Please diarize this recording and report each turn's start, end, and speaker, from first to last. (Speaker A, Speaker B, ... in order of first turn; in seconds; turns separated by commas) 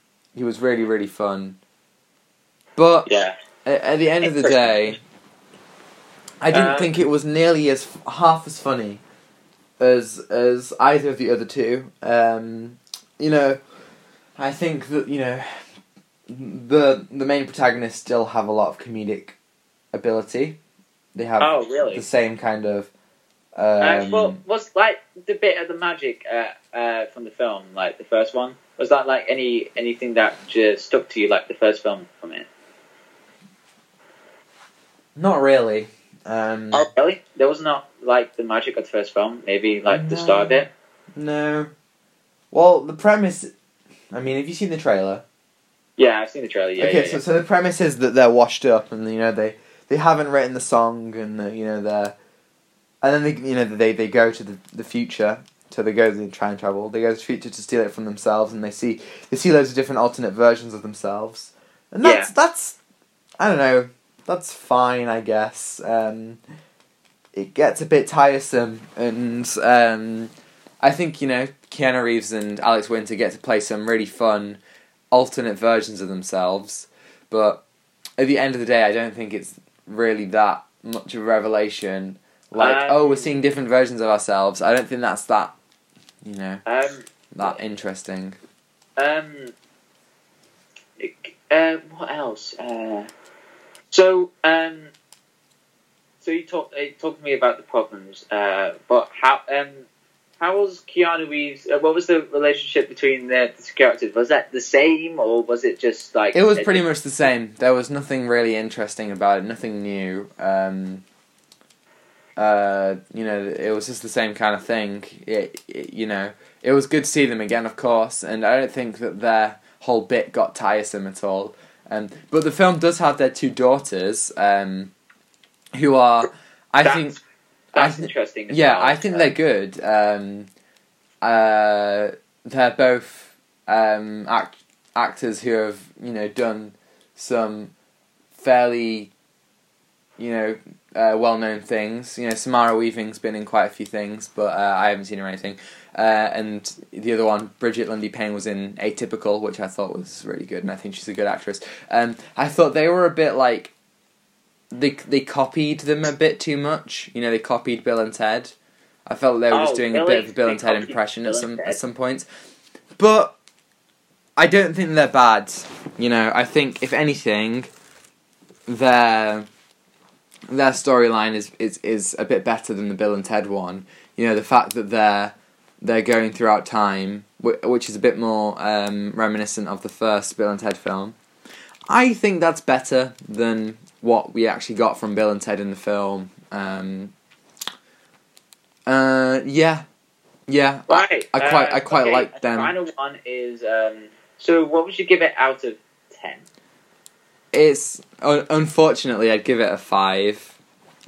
Speaker A: 0.3-1.6, Speaker A: 2.8-3.1, Speaker B: 3.0-3.3, Speaker A: 3.6-5.0, Speaker B: 4.2-4.9, Speaker A: 6.4-9.0, Speaker B: 6.5-6.9, Speaker A: 9.8-13.6, Speaker A: 14.4-15.6, Speaker A: 16.3-19.4, Speaker A: 19.9-20.6, Speaker A: 21.1-22.9, Speaker B: 21.4-22.0, Speaker A: 23.6-24.4, Speaker B: 23.8-32.5, Speaker A: 35.1-36.8, Speaker B: 36.7-40.7, Speaker A: 39.9-40.6, Speaker A: 41.1-41.7, Speaker A: 42.5-43.5, Speaker A: 44.1-45.2, Speaker B: 46.0-47.2, Speaker A: 46.8-52.1, Speaker A: 53.0-62.8, Speaker B: 62.0-62.3, Speaker A: 63.4-66.4, Speaker A: 67.3-74.6, Speaker A: 75.1-77.6, Speaker A: 78.2-85.5, Speaker B: 82.6-83.3, Speaker A: 86.2-86.6, Speaker B: 86.6-87.5, Speaker A: 87.3-88.4, Speaker B: 89.0-89.5, Speaker B: 91.0-93.1, Speaker B: 93.9-94.9, Speaker B: 96.2-99.8, Speaker B: 100.4-106.8, Speaker A: 106.3-111.0, Speaker A: 112.4-124.9, Speaker A: 125.7-127.2, Speaker B: 126.8-127.2, Speaker B: 127.7-129.3, Speaker A: 127.8-130.5, Speaker A: 131.2-137.7, Speaker A: 138.4-139.1, Speaker A: 140.2-153.7, Speaker A: 154.7-158.5, Speaker A: 159.1-162.3, Speaker B: 159.5-161.8, Speaker A: 163.0-163.3, Speaker A: 164.4-167.7, Speaker A: 168.7-169.5, Speaker A: 170.5-181.2, Speaker A: 181.9-187.1, Speaker A: 188.9-189.8, Speaker A: 190.5-192.7, Speaker B: 190.9-196.4, Speaker A: 197.5-200.5